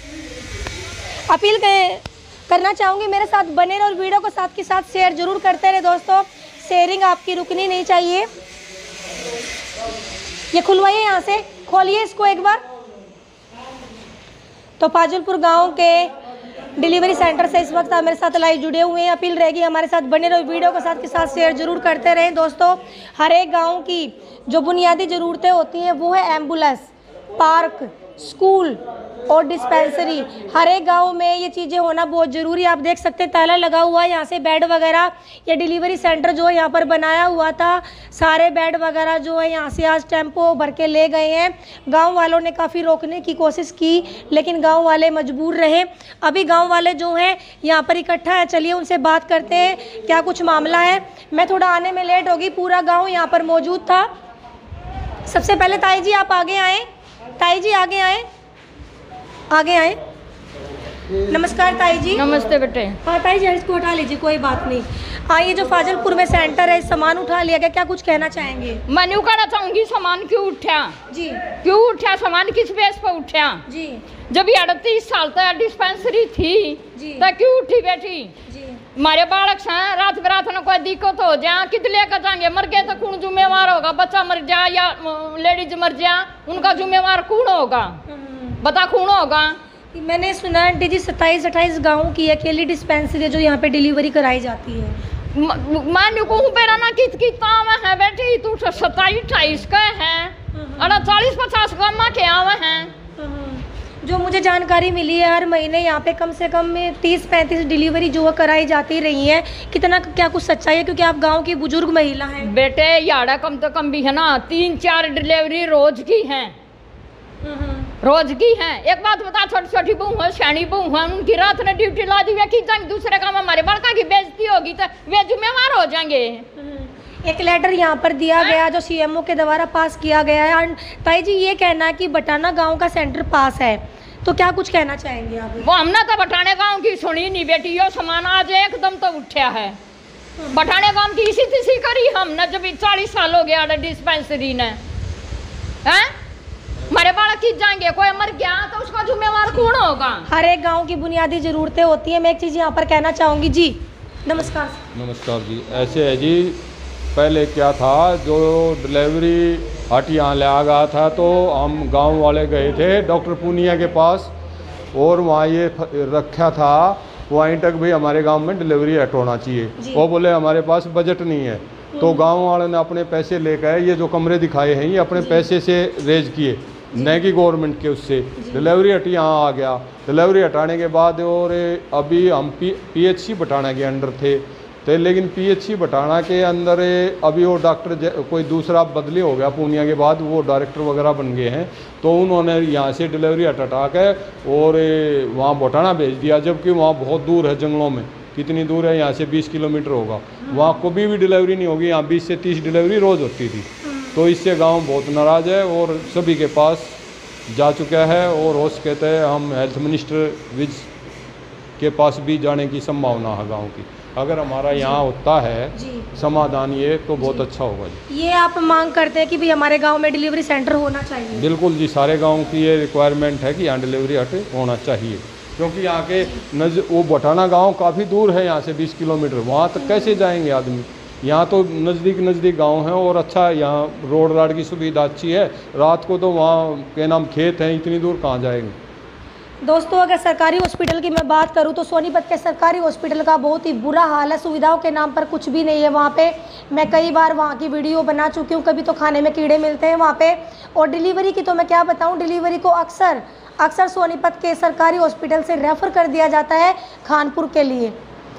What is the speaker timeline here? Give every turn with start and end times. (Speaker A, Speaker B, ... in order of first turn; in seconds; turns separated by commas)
Speaker A: 1.3-8.3, Speaker A: 10.5-12.6, Speaker A: 14.8-16.1, Speaker A: 16.8-54.1, Speaker A: 55.3-56.9, Speaker A: 57.4-58.2, Speaker A: 59.5-60.0, Speaker A: 61.3-62.2, Speaker B: 62.1-63.0, Speaker A: 63.0-68.8, Speaker B: 68.9-70.9, Speaker A: 71.1-71.4, Speaker B: 71.6-73.6, Speaker A: 73.7-74.0, Speaker B: 74.3-78.3, Speaker A: 76.9-77.3, Speaker A: 78.5-78.8, Speaker B: 79.0-88.0, Speaker A: 88.1-88.6, Speaker B: 88.6-89.6, Speaker A: 89.9-95.0, Speaker B: 95.3-102.9, Speaker A: 100.5-101.0, Speaker A: 103.2-112.5, Speaker B: 112.4-116.5, Speaker A: 117.4-117.9, Speaker B: 118.0-126.4, Speaker A: 126.6-135.7, Speaker B: 135.6-139.8, Speaker B: 140.5-144.8, Speaker B: 145.8-146.1, Speaker B: 146.9-150.2, Speaker A: 150.3-154.8, Speaker C: 154.9-156.6, Speaker C: 157.1-164.3, Speaker C: 164.9-207.0, Speaker A: 171.9-172.2, Speaker A: 175.1-175.4, Speaker A: 176.9-177.2, Speaker A: 178.4-178.7, Speaker C: 207.5-210.9, Speaker C: 211.8-218.0, Speaker A: 214.7-215.0, Speaker A: 215.7-216.1, Speaker A: 217.2-217.5, Speaker A: 218.1-221.5, Speaker C: 221.3-238.8, Speaker A: 229.8-230.2, Speaker A: 239.6-257.9